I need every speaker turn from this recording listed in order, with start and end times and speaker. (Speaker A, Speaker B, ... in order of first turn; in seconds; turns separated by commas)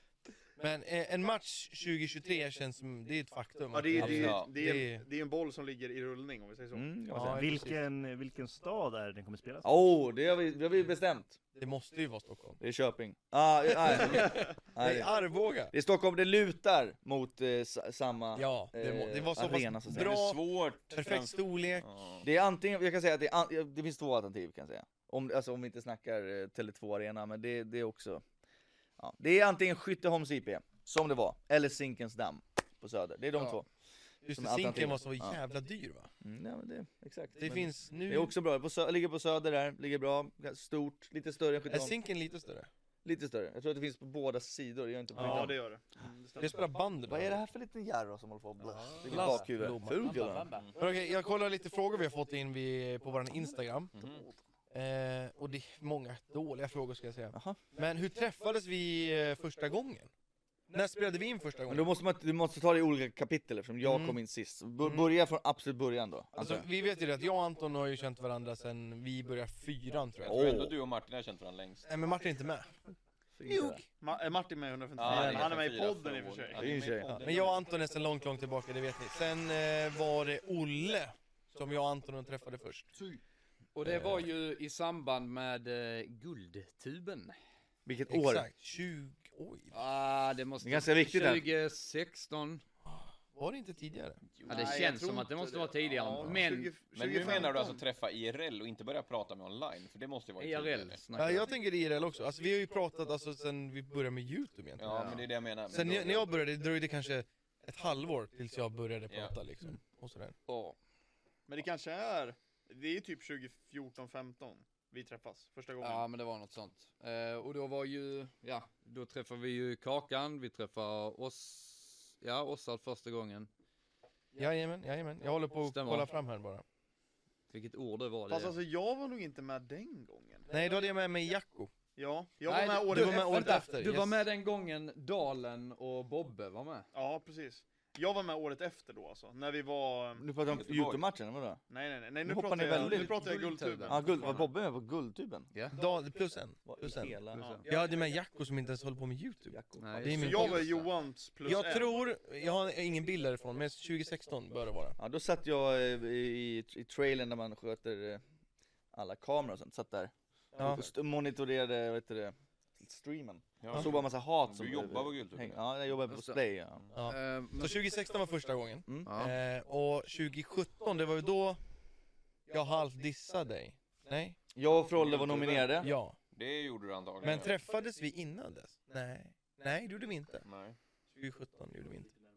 Speaker A: 0.6-5.0, Speaker B: 3.7-6.9, Speaker C: 4.0-4.5, Speaker D: 6.7-7.6, Speaker A: 7.1-7.8, Speaker E: 7.2-9.7, Speaker D: 9.6-11.4, Speaker A: 11.6-12.6, Speaker D: 12.6-15.1, Speaker A: 13.7-15.7, Speaker B: 14.2-14.5, Speaker D: 15.7-20.2, Speaker A: 18.4-21.9, Speaker C: 19.9-22.3, Speaker D: 22.2-28.2, Speaker D: 29.0-33.7, Speaker A: 34.2-36.1, Speaker D: 34.3-35.4, Speaker D: 36.2-41.9, Speaker A: 37.4-38.3, Speaker A: 41.7-42.7, Speaker D: 43.0-45.5, Speaker A: 45.2-45.5, Speaker B: 45.2-46.6, Speaker A: 46.4-47.4, Speaker D: 47.1-50.5, Speaker F: 48.8-50.8, Speaker A: 49.1-50.1, Speaker A: 50.8-54.0, Speaker C: 54.0-54.2, Speaker A: 54.7-60.1, Speaker D: 57.3-57.6, Speaker A: 60.7-61.9, Speaker D: 61.7-66.7, Speaker A: 63.8-64.2, Speaker A: 64.8-65.1, Speaker A: 66.4-70.5, Speaker C: 70.2-71.8, Speaker D: 70.2-70.8, Speaker A: 71.9-72.8, Speaker D: 73.4-73.8, Speaker A: 73.5-73.9, Speaker B: 74.0-76.7, Speaker C: 75.0-77.6, Speaker D: 75.1-75.4, Speaker D: 76.5-77.2, Speaker A: 77.0-82.9, Speaker F: 83.8-87.4, Speaker D: 87.8-88.5, Speaker A: 88.1-89.7, Speaker F: 89.7-92.6, Speaker D: 90.6-91.5, Speaker A: 92.9-94.2, Speaker C: 94.3-94.9, Speaker B: 94.5-97.8, Speaker F: 94.5-97.5, Speaker C: 97.0-101.0, Speaker F: 100.4-101.5, Speaker A: 101.2-110.3, Speaker C: 104.8-106.3, Speaker F: 104.8-105.2, Speaker C: 109.1-109.3, Speaker F: 110.5-110.8, Speaker B: 111.5-116.0, Speaker F: 115.8-123.5, Speaker A: 124.3-126.6, Speaker F: 125.7-126.1, Speaker F: 127.5-128.5, Speaker B: 128.3-130.5, Speaker A: 130.5-131.7, Speaker B: 132.0-133.6, Speaker F: 132.4-136.9, Speaker A: 132.9-134.2, Speaker B: 136.9-140.2, Speaker D: 140.2-141.6, Speaker C: 140.5-141.0, Speaker B: 141.7-144.5, Speaker D: 142.2-143.2, Speaker F: 142.7-144.4, Speaker D: 143.9-145.5, Speaker A: 145.7-150.7, Speaker D: 146.7-147.4, Speaker F: 147.4-147.7, Speaker B: 147.4-147.8, Speaker D: 149.5-150.5, Speaker F: 149.8-150.9, Speaker B: 150.1-152.0, Speaker A: 151.4-155.0, Speaker D: 155.0-158.2, Speaker D: 158.9-166.9, Speaker A: 160.6-160.9, Speaker C: 163.6-165.6, Speaker F: 166.1-166.4, Speaker A: 166.9-171.6, Speaker F: 167.1-167.7, Speaker F: 169.1-169.3, Speaker A: 172.5-174.4, Speaker D: 174.6-175.9, Speaker C: 175.0-177.5, Speaker A: 175.8-176.2, Speaker A: 177.2-180.4, Speaker C: 180.4-180.8, Speaker A: 181.1-182.1